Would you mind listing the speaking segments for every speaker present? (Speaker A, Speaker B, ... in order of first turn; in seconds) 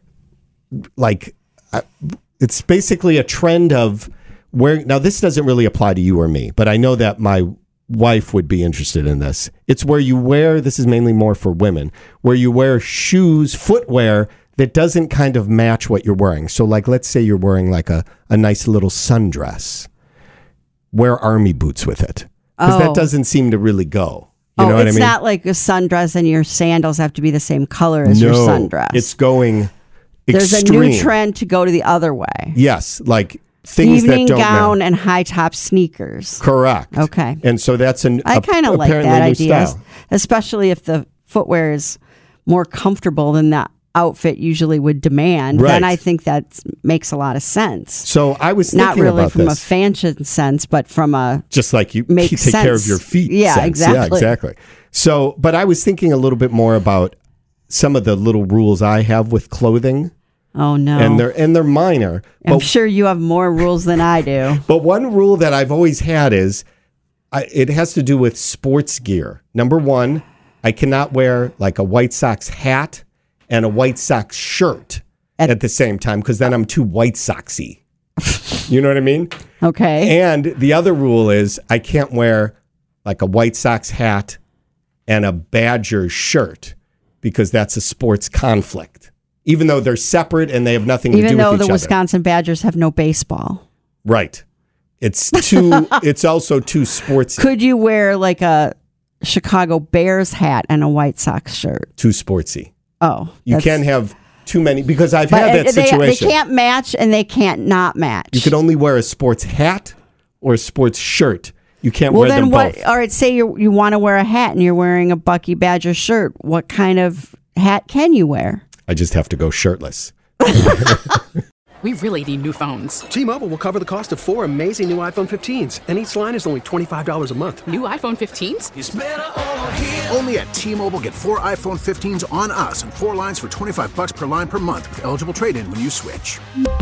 Speaker A: 1.0-19.9, 20.9-25.1, 28.0-29.7, 30.3-31.1, 32.5-34.8, 36.4-39.8, 45.5-46.0, 48.0-49.7, 51.5-57.1, 57.7-60.1, 61.0-62.7, 64.6-66.6, 67.3-77.8, 78.7-79.3, 80.0-84.4, 85.1-91.9, 94.0-94.4, 95.0-97.5, 102.0-102.7, 103.5-106.3, 108.3-112.8, 118.9-120.8
Speaker B: 22.6-23.1, 24.6-29.1, 30.3-32.5, 33.8-36.4, 36.9-37.4, 38.2-48.1, 48.7-51.5, 52.1-54.3, 60.5-61.2, 62.4-64.6, 79.6-80.1, 91.1-93.6, 97.3-101.9, 103.0-103.8, 105.3-108.5, 112.1-118.7
Speaker C: 121.8-123.1, 127.6-128.7
Speaker D: 123.1-127.6
Speaker E: 128.8-136.4